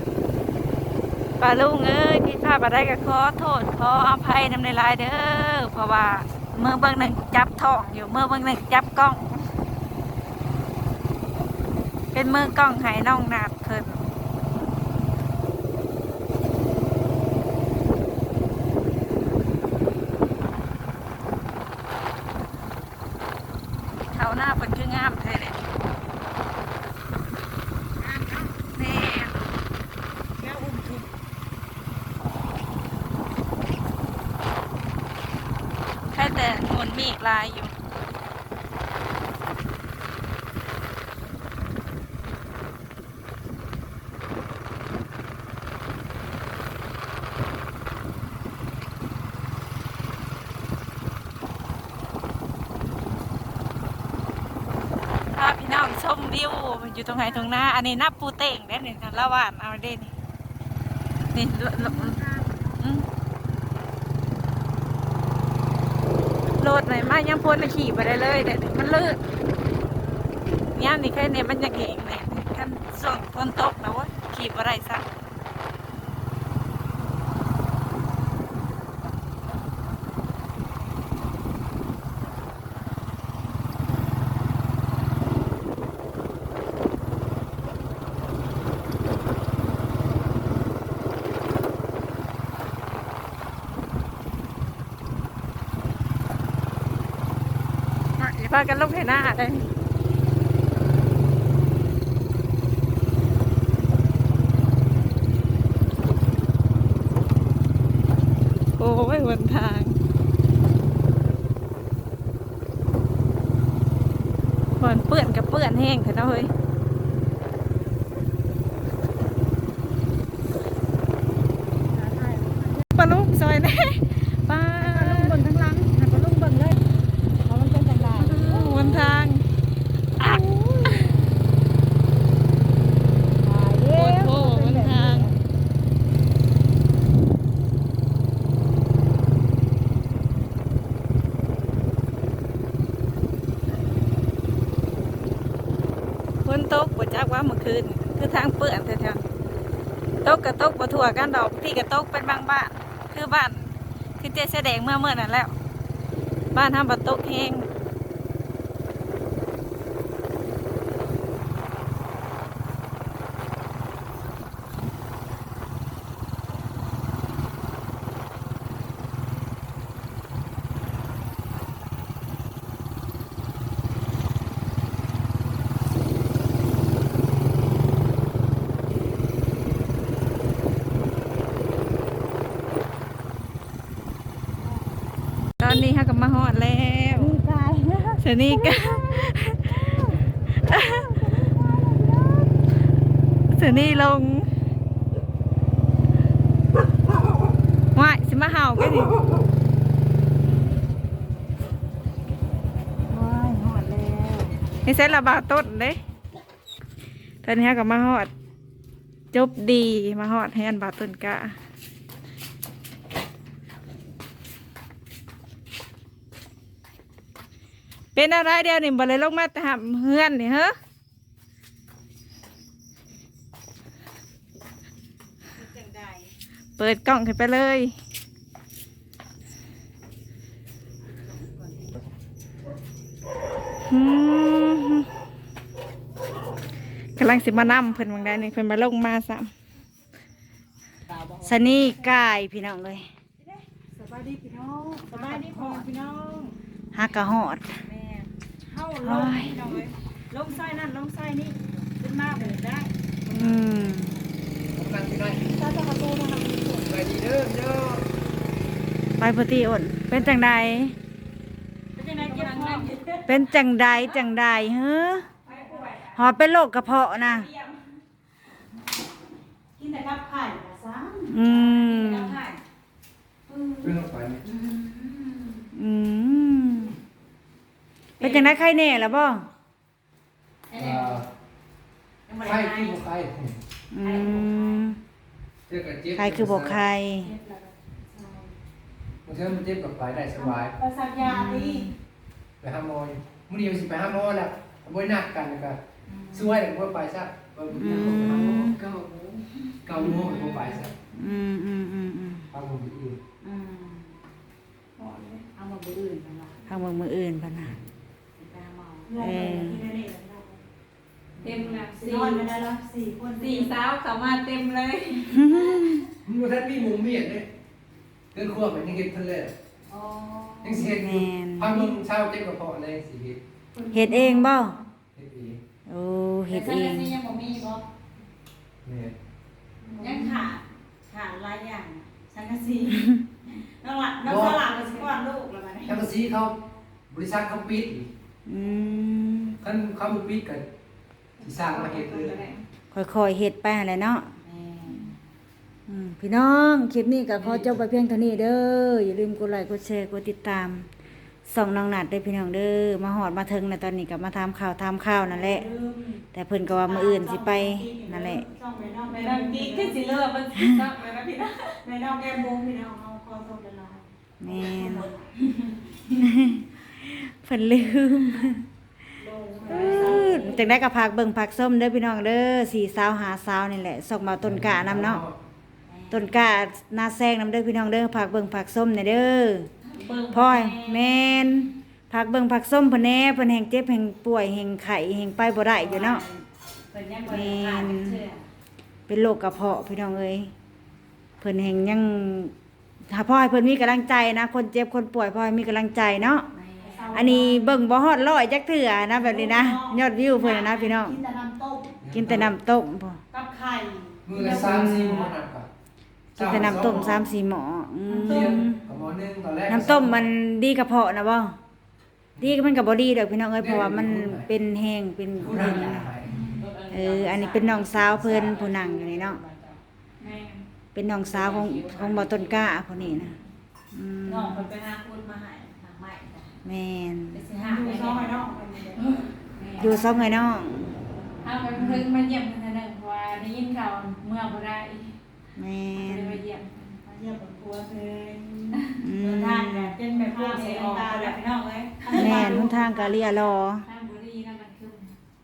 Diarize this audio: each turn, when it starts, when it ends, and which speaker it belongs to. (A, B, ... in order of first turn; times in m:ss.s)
0:01.4-0:09.4 A
0:12.1-0:14.1 A
0:24.1-0:25.6 A
0:28.0-0:28.5 B
0:28.7-0:29.3 A
0:30.4-0:31.1 B
0:36.1-0:37.7 A
0:55.3-1:00.1 A
1:01.3-1:02.2 A
1:01.8-1:02.7 B
1:02.8-1:03.0 A
1:06.6-1:09.2 A
1:10.7-1:15.0 A
1:38.2-1:39.6 A
1:48.8-1:50.0 A
1:54.8-1:56.5 A
2:01.9-2:02.9 B
2:02.9-2:05.4 A
2:04.8-2:06.8 B
2:07.4-2:09.3 B
2:08.2-2:09.4 A
2:10.2-2:11.1 A
2:10.2-2:11.2 B
2:13.4-2:15.3 B
2:13.9-2:15.3 A
2:26.4-2:29.2 A
2:30.2-2:35.5 A
2:36.5-2:37.7 A
3:05.6-3:07.3 A
3:07.1-3:12.5 B
3:08.2-3:09.6 A
3:10.6-3:11.1 A
3:13.5-3:14.5 A
3:13.6-3:14.0 B
3:17.9-3:19.2 A
3:23.0-3:24.6 B
3:24.8-3:26.0 A
3:27.4-3:28.3 A
3:29.3-3:31.5 A
3:38.1-3:40.7 A
3:45.6-3:46.2 B
3:46.8-3:47.9 A
3:53.9-3:55.1 A
3:57.2-3:59.5 A
4:01.1-4:01.9 C
4:01.4-4:03.1 B
4:03.5-4:06.5 C
4:05.0-4:05.9 B
4:06.9-4:07.8 B
4:07.9-4:13.7 C
4:09.0-4:09.8 B
4:13.3-4:14.2 B
4:14.7-4:15.6 D
4:15.4-4:16.9 C
4:16.8-4:18.0 D
4:19.2-4:21.0 B
4:22.0-4:23.4 C
4:22.2-4:25.3 B
4:25.4-4:26.2 C
4:26.1-4:27.5 B
4:27.2-4:27.8 C
4:29.8-4:32.6 C
4:31.3-4:32.4 B
4:33.5-4:33.9 C
4:33.8-4:34.5 D
4:34.4-4:35.7 C
4:35.7-4:37.0 B
4:38.2-4:39.5 B
4:38.2-4:38.5 C
4:40.7-4:41.3 C
4:40.8-4:41.3 D
4:42.3-4:43.0 C
4:42.4-4:43.6 D
4:43.9-4:45.0 B
4:44.0-4:44.9 C
4:45.7-4:46.8 D
4:46.1-4:47.3 B
4:47.2-4:48.5 C
4:49.2-4:50.8 D
4:50.4-4:51.9 C
4:51.2-4:51.9 B
4:52.6-4:58.8 D
4:56.1-4:56.5 C
4:57.7-4:58.8 B
4:58.6-5:00.5 C
4:59.8-5:00.9 D
5:00.0-5:00.3 B
5:01.1-5:02.5 B
5:02.5-5:03.2 D
5:03.4-5:04.1 C
5:05.0-5:05.4 A
5:05.6-5:06.6 C
5:06.6-5:07.8 B
5:08.4-5:10.6 C
5:09.2-5:09.8 B
5:11.4-5:13.8 C
5:11.4-5:12.5 A
5:13.4-5:15.6 A
5:15.3-5:16.1 B
5:16.2-5:17.5 D
5:18.3-5:19.5 D
5:19.9-5:20.9 C
5:20.6-5:23.4 D
5:20.9-5:21.9 B
5:23.8-5:24.5 C
5:23.9-5:24.8 B
5:25.1-5:25.6 D
5:25.9-5:27.1 B
5:26.5-5:27.8 C
5:28.8-5:29.1 D
5:29.9-5:36.1 C
5:32.9-5:33.2 B
5:34.2-5:34.8 D
5:35.8-5:36.6 D
5:37.1-5:38.1 D
5:38.5-5:39.6 B
5:39.6-5:40.6 D
5:41.4-5:42.6 A
5:41.4-5:42.4 D
5:42.9-5:44.4 B
5:44.4-5:45.1 C
5:45.9-5:50.9 B
5:51.4-5:55.7 B
5:55.2-5:56.2 C
5:56.3-5:58.5 B
5:56.8-6:00.0 C
5:59.0-6:01.8 A
6:00.5-6:00.9 B
6:01.8-6:06.0 C
6:04.4-6:05.1 B
6:06.1-6:08.7 B
6:09.2-6:10.8 C
6:09.6-6:15.2 B
6:14.4-6:15.3 D
6:15.9-6:16.6 C
6:16.1-6:19.7 B
6:19.9-6:21.1 C
6:20.3-6:26.2 B
6:25.7-6:28.5 C
6:27.2-6:28.2 B
6:29.1-6:30.5 B
6:31.4-6:32.5 B
6:33.1-6:36.5 B
6:36.5-6:37.8 C
6:37.1-6:41.2 B
6:39.1-6:42.0 C
6:42.0-6:42.5 D
6:42.1-6:43.2 B
6:43.3-6:45.3 C
6:44.2-6:45.7 D
6:44.6-6:45.3 B
6:46.4-6:47.3 D
6:46.4-6:48.8 B
6:48.1-6:50.3 D
6:48.3-6:48.6 C
6:49.7-6:51.6 B
6:52.4-6:56.3 B
6:53.6-6:54.5 D
6:55.4-6:56.4 D
6:56.4-6:59.8 C
6:56.9-6:59.4 B
6:58.2-6:58.5 D
7:00.2-7:00.6 A
7:00.9-7:03.4 B
7:01.3-7:02.7 C
7:03.9-7:04.7 B
7:04.2-7:06.5 C
7:06.6-7:07.4 B
7:07.3-7:09.2 C
7:07.6-7:08.3 A
7:08.9-7:10.1 A
7:09.8-7:11.0 B
7:11.4-7:15.1 A
7:11.7-7:12.1 B
7:15.6-7:16.4 B
7:16.0-7:16.8 A
7:17.0-7:23.2 C
7:19.0-7:20.0 B
7:20.0-7:21.4 A
7:22.0-7:22.8 A
7:22.1-7:23.9 B
7:23.8-7:25.1 A